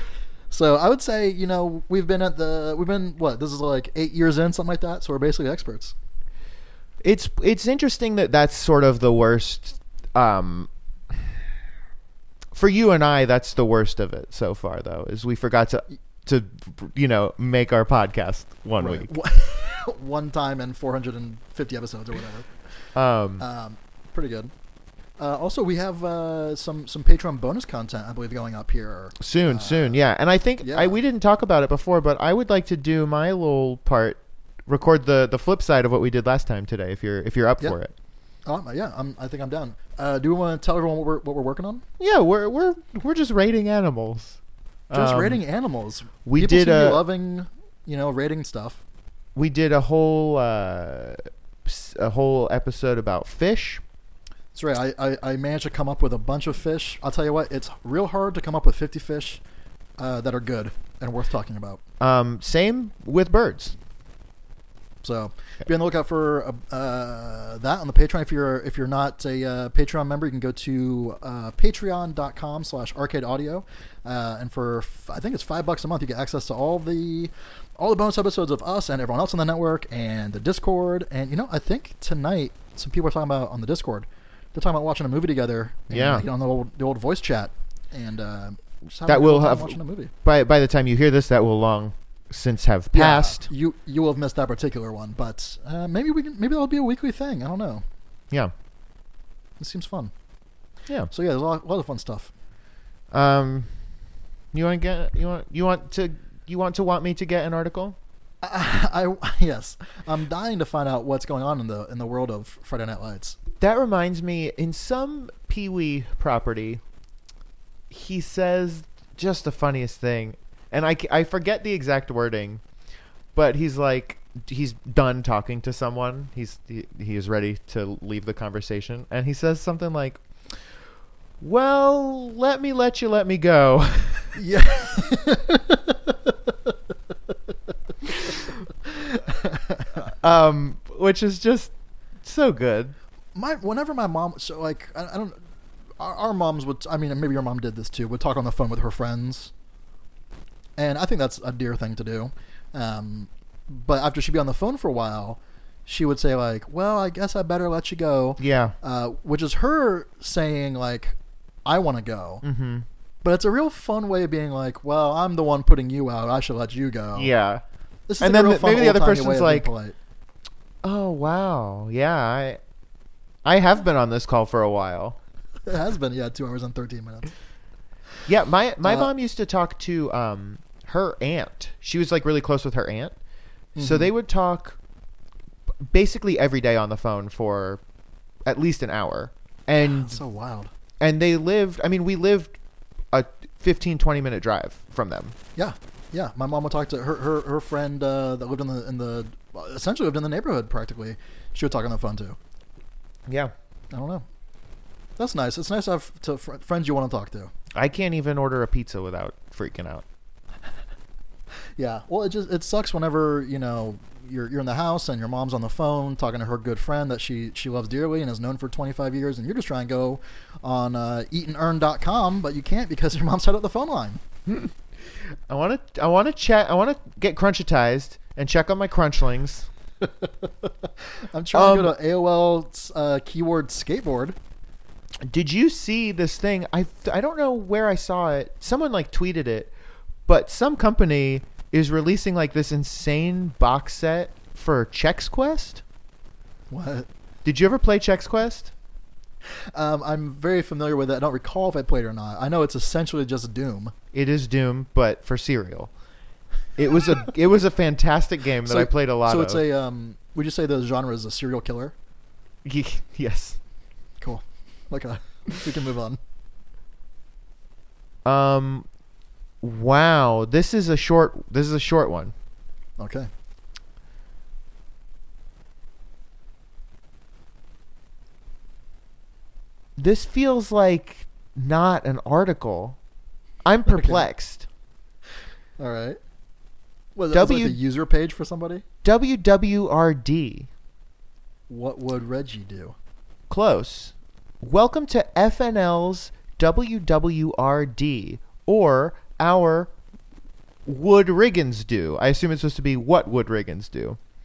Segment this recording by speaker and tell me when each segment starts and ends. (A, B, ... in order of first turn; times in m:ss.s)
0:00.5-0:05.9 A
0:07.0-0:10.7 B
0:12.5-0:19.1 B
0:18.8-0:22.5 A
0:23.0-0:23.4 B
0:23.4-0:24.5 A
0:25.2-0:30.0 A
0:29.2-0:37.9 B
0:30.6-0:31.0 A
0:38.5-0:41.8 A
0:42.0-0:44.4 B
0:44.9-0:45.4 B
0:44.9-0:48.8 A
0:46.2-0:47.0 B
0:49.3-0:53.8 B
0:54.5-0:59.4 A
1:00.0-1:01.8 A
1:02.0-1:03.8 B
1:05.0-1:30.1 A
1:25.9-1:26.3 B
1:29.0-1:33.5 B
1:32.9-1:37.8 A
1:39.6-1:40.1 A
1:41.1-1:42.3 A
1:43.1-1:43.7 B
1:44.5-1:48.0 B
1:48.4-1:53.4 A
1:53.6-1:56.8 B
1:57.9-2:02.6 B
2:03.3-2:10.2 B
2:11.4-2:14.4 B
2:14.4-2:16.8 A
2:18.1-2:20.0 A
2:20.1-2:21.7 B
2:22.2-2:22.9 B
2:23.4-2:25.4 A
2:26.0-2:29.5 A
2:30.8-2:42.4 A
2:38.4-2:38.8 B
2:42.4-2:42.9 B
2:43.2-2:47.3 A
2:47.1-2:47.6 B
2:48.1-2:50.0 A
2:48.2-2:49.7 B
2:50.8-2:52.6 B
2:53.4-2:55.2 B
2:55.6-2:57.3 A
2:58.2-3:03.1 B
2:58.8-2:59.1 A
3:03.8-3:04.1 A
3:03.8-3:04.8 B
3:05.9-3:07.8 B
3:08.5-3:10.2 B
3:09.8-3:10.7 A
3:11.0-3:12.6 B
3:13.1-3:15.4 B
3:15.6-3:22.4 A
3:23.3-3:23.5 B
3:23.9-3:24.2 A
3:25.2-3:27.5 A
3:27.8-3:30.0 B
3:31.8-3:44.2 A
3:44.5-3:44.7 B
3:45.5-3:49.7 B
3:50.0-3:54.4 A
3:51.5-3:51.9 B
3:55.3-3:59.7 B
4:00.2-4:05.8 B
4:06.7-4:07.1 A
4:07.4-4:08.7 B
4:09.7-4:13.9 A
4:14.1-4:15.9 B
4:16.8-4:19.6 B
4:18.6-4:21.9 A
4:22.6-4:23.6 B
4:24.2-4:26.2 A
4:28.2-4:28.9 B
4:29.6-4:32.3 B
4:33.0-4:33.3 A
4:40.0-4:43.0 B
4:43.6-4:44.7 B
4:43.9-4:44.2 A
4:45.8-4:46.2 A
4:47.2-4:48.8 A
4:47.3-4:47.8 B
4:49.0-4:50.7 B
4:51.7-4:52.9 A
4:53.5-4:59.9 B
5:00.9-5:04.2 B